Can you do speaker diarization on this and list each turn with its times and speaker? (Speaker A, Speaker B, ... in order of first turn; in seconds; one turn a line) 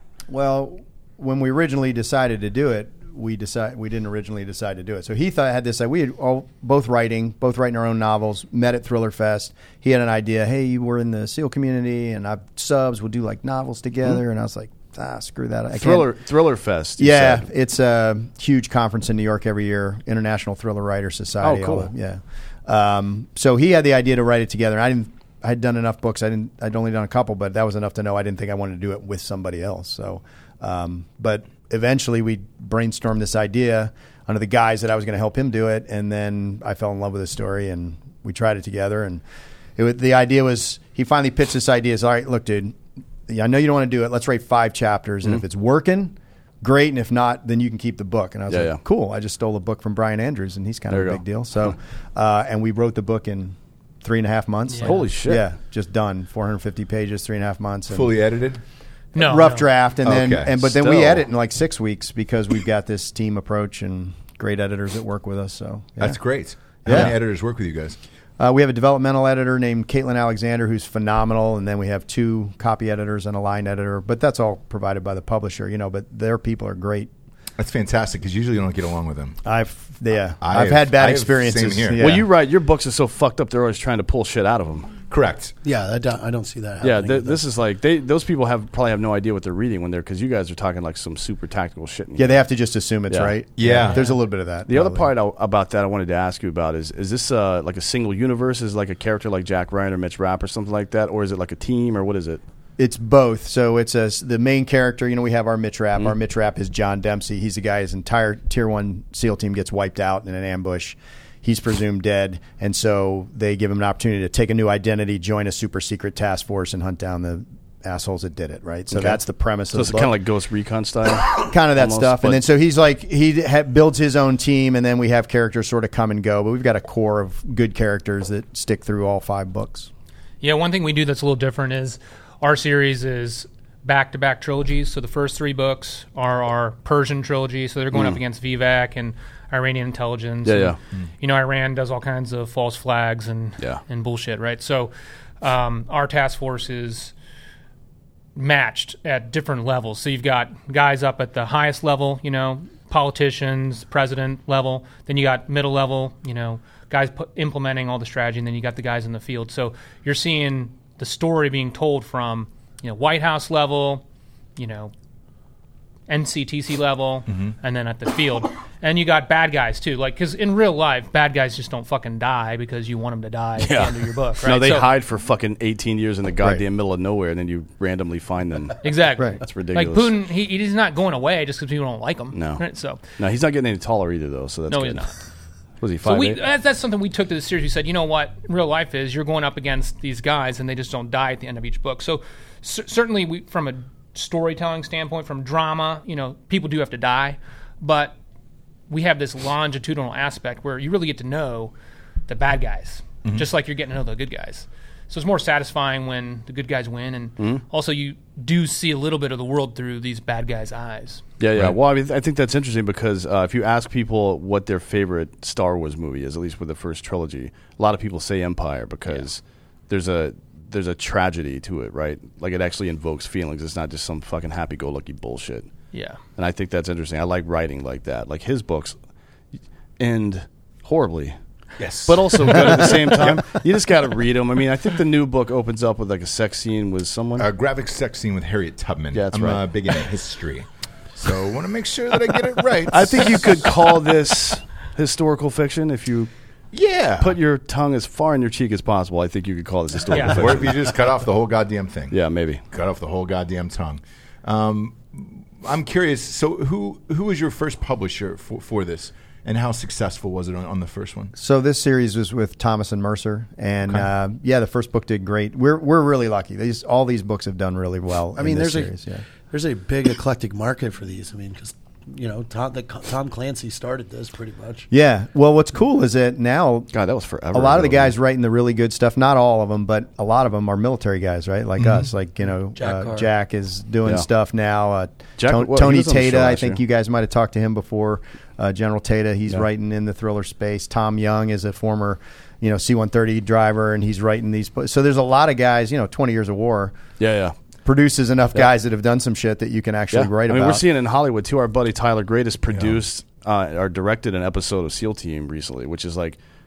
Speaker A: 0.3-16.1
Speaker B: 15.7-17.4
Speaker A: 17.0-39.2
Speaker B: 21.4-21.9
Speaker A: 39.8-58.1
Speaker B: 48.5-48.8
Speaker B: 50.9-51.7
Speaker C: 54.7-54.9
Speaker B: 54.8-55.5
Speaker D: 57.9-58.6
Speaker C: 59.1-59.7
Speaker A: 59.1-66.2
Speaker D: 60.0-60.7
Speaker B: 60.7-61.2
Speaker D: 66.0-68.0
Speaker A: 66.8-67.2
Speaker A: 68.4-77.1
Speaker D: 77.6-79.4
Speaker A: 79.4-82.3
Speaker D: 80.4-82.1
Speaker B: 82.0-84.9
Speaker D: 85.1-85.5
Speaker E: 85.6-87.4
Speaker B: 86.8-92.3
Speaker A: 92.2-95.1
Speaker B: 93.1-93.3
Speaker D: 93.6-94.0
Speaker B: 94.7-102.4
Speaker A: 102.8-120.1
Speaker B: 118.9-119.2
Speaker B: 119.7-122.4
Speaker A: 121.3-129.9
Speaker C: 130.4-147.1
Speaker B: 140.4-140.8
Speaker C: 148.3-164.0
Speaker C: 164.6-164.9
Speaker C: 166.1-174.9
Speaker B: 173.6-180.1
Speaker C: 178.8-183.0
Speaker B: 182.3-182.6
Speaker B: 183.2-185.1
Speaker C: 184.7-185.1
Speaker B: 185.8-186.4
Speaker C: 186.0-198.2
Speaker C: 198.9-201.7
Speaker C: 202.3-211.2
Speaker B: 211.4-225.7
Speaker C: 225.9-226.2
Speaker B: 226.3-228.9
Speaker B: 230.0-231.3
Speaker D: 231.8-233.4
Speaker B: 232.1-237.5
Speaker D: 237.4-243.7
Speaker B: 239.1-239.6
Speaker B: 242.9-246.3
Speaker D: 246.7-247.3
Speaker B: 247.2-250.9
Speaker C: 250.1-250.4
Speaker D: 250.2-252.2
Speaker B: 252.1-252.6
Speaker D: 252.7-261.3
Speaker A: 261.4-269.2
Speaker E: 268.4-268.9
Speaker E: 269.5-274.9
Speaker A: 274.9-276.9
Speaker B: 276.9-278.1
Speaker A: 277.5-297.0
Speaker D: 281.8-282.1
Speaker E: 282.8-283.3
Speaker B: 285.4-286.8
Speaker B: 297.2-297.5
Speaker A: 297.8-300.8
Speaker B: 300.1-306.4
Speaker D: 302.7-303.0